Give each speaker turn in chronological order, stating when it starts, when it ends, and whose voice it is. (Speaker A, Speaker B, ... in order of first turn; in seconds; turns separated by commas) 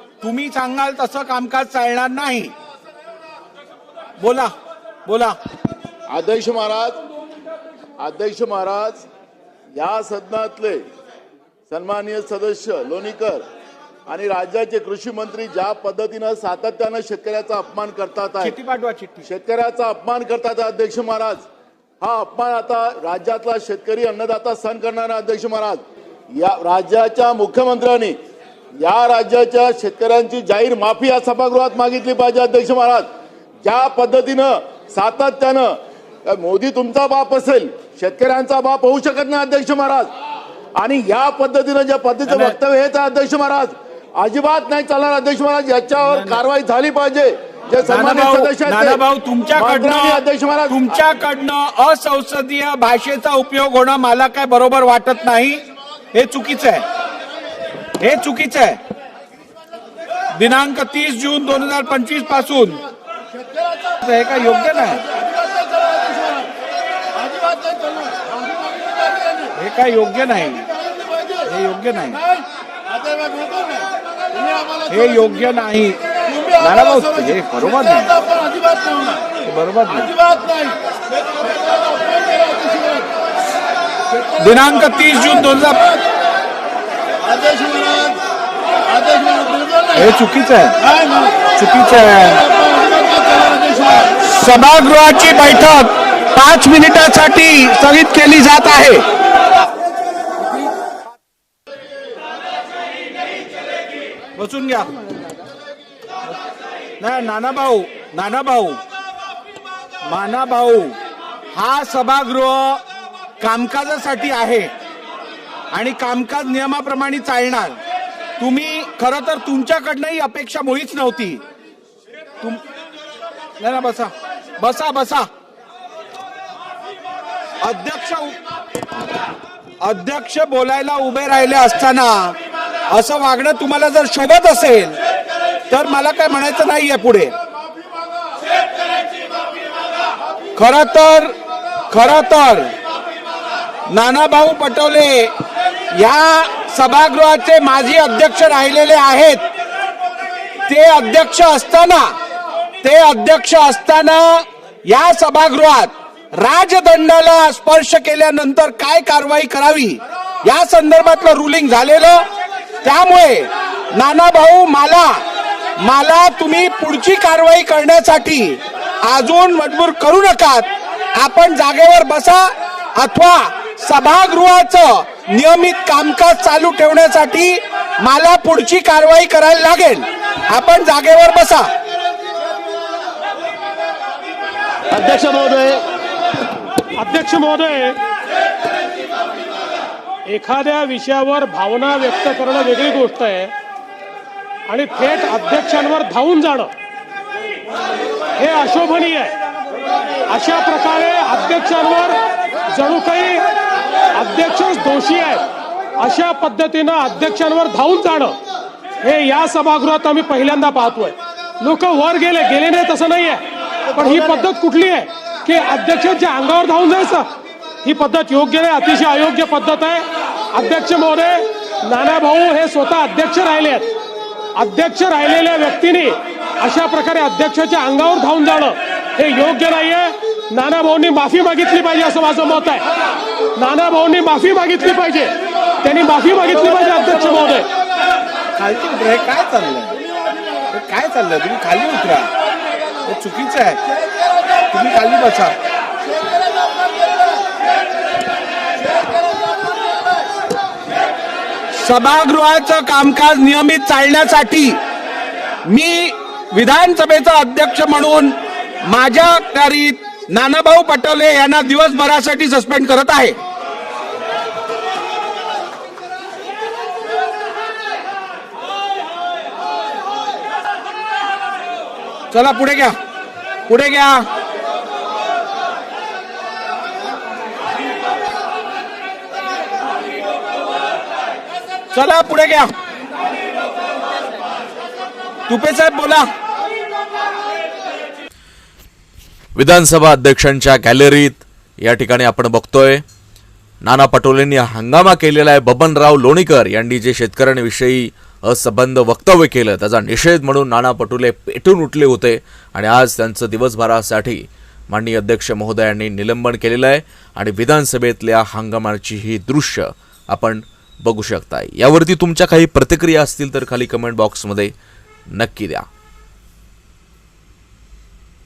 Speaker A: 0.2-2.5, Speaker A: 4.2-4.5, Speaker A: 5.0-5.3, Speaker B: 6.1-7.0, Speaker B: 8.0-9.1, Speaker B: 9.7-10.8, Speaker B: 11.7-13.4, Speaker B: 14.1-18.5, Speaker A: 18.4-19.2, Speaker B: 19.2-21.4, Speaker B: 22.0-25.8, Speaker B: 26.3-28.1, Speaker B: 28.8-33.1, Speaker B: 33.6-40.1, Speaker B: 40.8-49.0, Speaker A: 42.3-42.5, Speaker A: 46.0-46.4, Speaker A: 47.8-55.6, Speaker B: 49.5-51.0, Speaker A: 56.1-56.8, Speaker A: 58.0-58.8, Speaker A: 60.3-62.8, Speaker A: 64.0-65.0, Speaker B: 65.5-66.4, Speaker B: 67.2-69.4, Speaker A: 69.5-70.7, Speaker A: 71.4-72.2, Speaker B: 72.9-74.8, Speaker A: 74.9-76.0, Speaker B: 76.3-77.1, Speaker A: 76.5-78.1, Speaker B: 78.1-79.2, Speaker A: 79.4-80.1, Speaker B: 80.1-80.8, Speaker B: 81.3-83.1, Speaker A: 84.4-85.9, Speaker B: 87.2-88.2, Speaker B: 88.9-90.0, Speaker A: 89.9-90.8, Speaker B: 90.9-91.3, Speaker A: 91.4-92.4, Speaker B: 92.5-94.0, Speaker A: 94.1-99.0, Speaker A: 104.3-104.9, Speaker A: 107.0-108.8, Speaker A: 110.0-110.9, Speaker A: 111.5-112.8, Speaker A: 113.4-114.7, Speaker A: 115.7-117.8, Speaker A: 118.4-121.4, Speaker A: 123.6-125.3, Speaker A: 127.6-128.3, Speaker A: 129.8-132.3, Speaker A: 132.9-135.0, Speaker A: 135.7-137.3, Speaker A: 140.6-141.3, Speaker A: 141.9-142.7, Speaker A: 143.9-145.3, Speaker A: 145.9-149.4, Speaker A: 150.7-152.1, Speaker A: 152.8-162.2, Speaker A: 162.8-165.2, Speaker A: 165.8-181.7, Speaker B: 184.9-185.8, Speaker C: 186.9-188.0, Speaker C: 190.3-193.5, Speaker C: 194.7-196.7, Speaker C: 198.4-199.3, Speaker C: 200.3-202.2, Speaker C: 202.7-203.5, Speaker C: 204.1-205.4, Speaker C: 206.0-208.4, Speaker C: 209.0-217.3, Speaker C: 217.8-223.9, Speaker C: 224.5-232.9, Speaker C: 233.6-237.7, Speaker A: 238.6-239.9, Speaker A: 240.7-242.3, Speaker A: 243.0-243.8, Speaker A: 244.6-245.5, Speaker A: 251.7-254.8, Speaker A: 255.7-263.4, Speaker A: 272.3-272.9, Speaker A: 273.7-274.2, Speaker A: 281.9-282.7, Speaker A: 285.5-286.3, Speaker D: 289.6-293.0, Speaker D: 293.8-314.7, Speaker D: 315.3-315.9